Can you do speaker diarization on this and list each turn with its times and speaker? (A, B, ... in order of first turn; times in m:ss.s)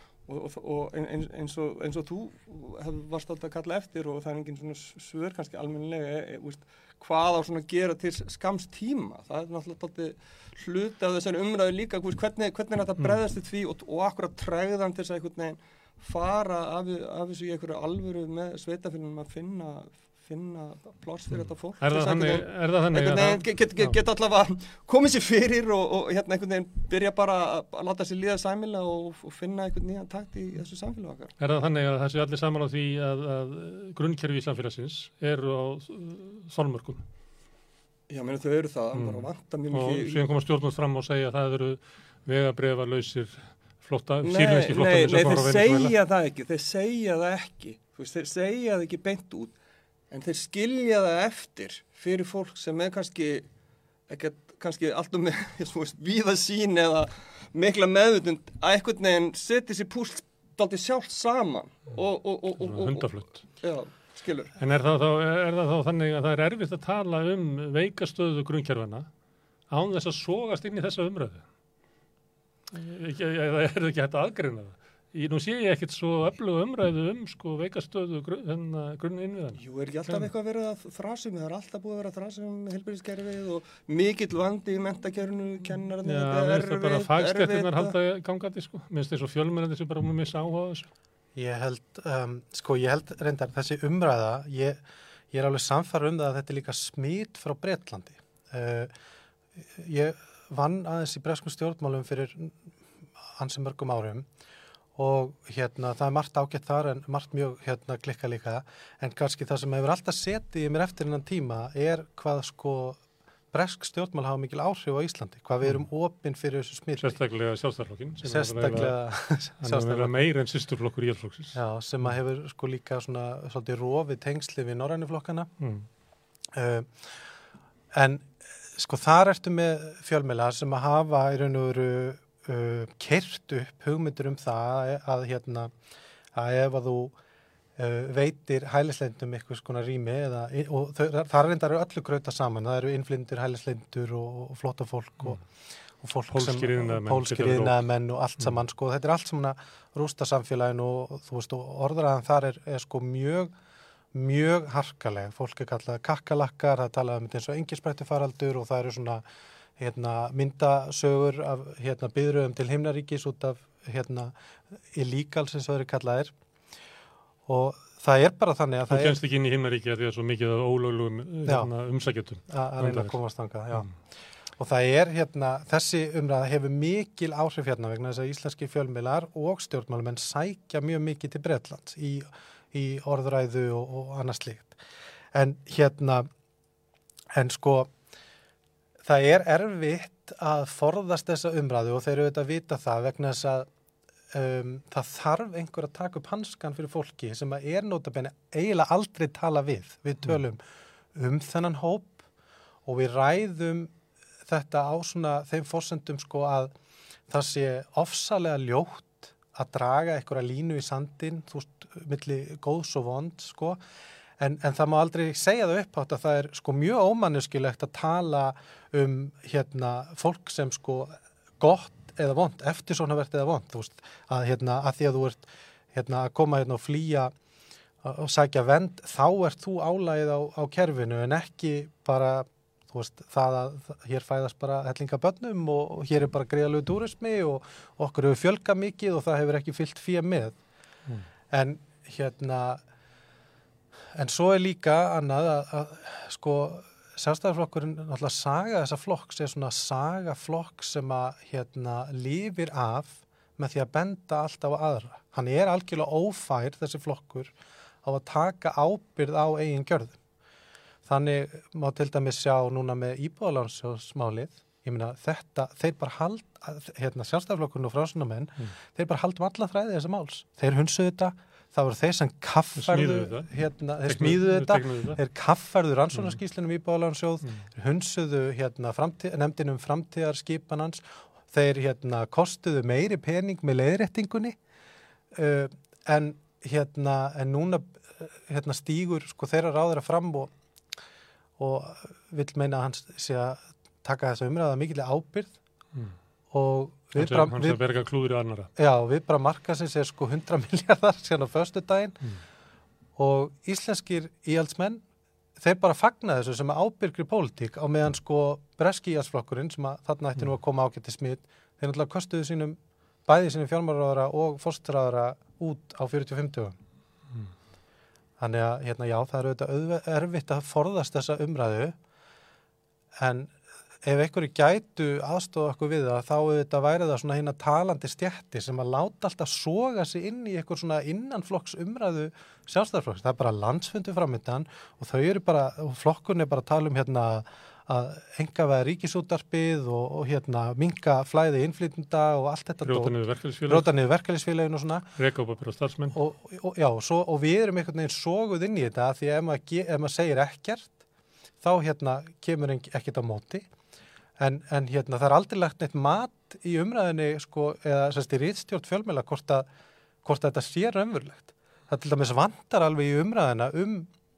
0:00.3-0:31.3 A
0:13.0-0:13.2 B
0:21.3-0:24.0 B
0:31.4-0:37.0 B
0:38.1-0:40.3 A
0:38.9-0:46.0 B
0:44.2-0:49.6 A
0:50.1-0:53.5 A
0:54.1-1:03.1 A
1:02.6-1:03.4 B
1:03.6-1:04.5 A
1:04.6-1:09.1 B
1:09.7-1:11.4 B
1:12.7-1:20.3 B
1:19.6-1:28.0 A
1:26.0-1:30.9 B
1:31.4-1:34.8 C
1:35.3-1:38.9 C
1:39.8-1:42.6 C
1:43.4-1:44.3 C
1:45.0-1:57.2 C
1:57.0-1:59.0 B
1:58.2-2:00.1 C
1:59.6-2:02.1 B
2:01.5-2:05.5 C
2:05.6-2:05.9 B
2:06.5-2:07.1 C
2:07.9-2:15.7 C
2:16.3-2:17.2 C
2:17.8-2:25.4 C
2:26.0-2:33.5 C
2:26.3-2:27.8 B
2:34.1-2:39.2 C
2:39.8-2:44.4 C
2:44.9-2:46.3 C
2:47.5-2:49.2 C
2:48.9-2:53.2 B
2:51.4-2:51.7 C
2:52.5-2:54.0 C
2:54.6-3:04.8 C
3:05.3-3:06.3 C
3:07.3-3:07.9 C
3:09.0-3:13.7 C
3:14.3-3:20.6 C
3:21.2-3:22.2 C
3:22.8-3:23.9 C
3:24.4-3:26.7 C
3:27.3-3:33.8 C
3:34.4-3:47.3 C
3:48.0-4:00.6 C
4:01.5-4:02.8 C
4:04.2-4:17.5 C
4:18.0-4:20.2 C
4:21.1-4:44.6 C
4:32.8-4:33.5 B
4:34.0-4:35.2 B
4:45.3-4:50.5 C
4:51.6-4:55.6 C
4:56.5-4:57.8 C
4:57.2-4:58.7 B
4:58.8-5:02.2 C
5:03.2-5:05.0 C
5:05.6-5:16.8 C
5:18.4-5:22.0 C
5:23.2-5:43.2 C
5:42.8-5:43.9 B
5:43.7-5:45.1 C
5:45.2-5:46.2 B
5:46.1-5:51.0 C
5:51.6-5:53.7 C
5:54.4-5:59.7 C
6:00.2-6:04.1 C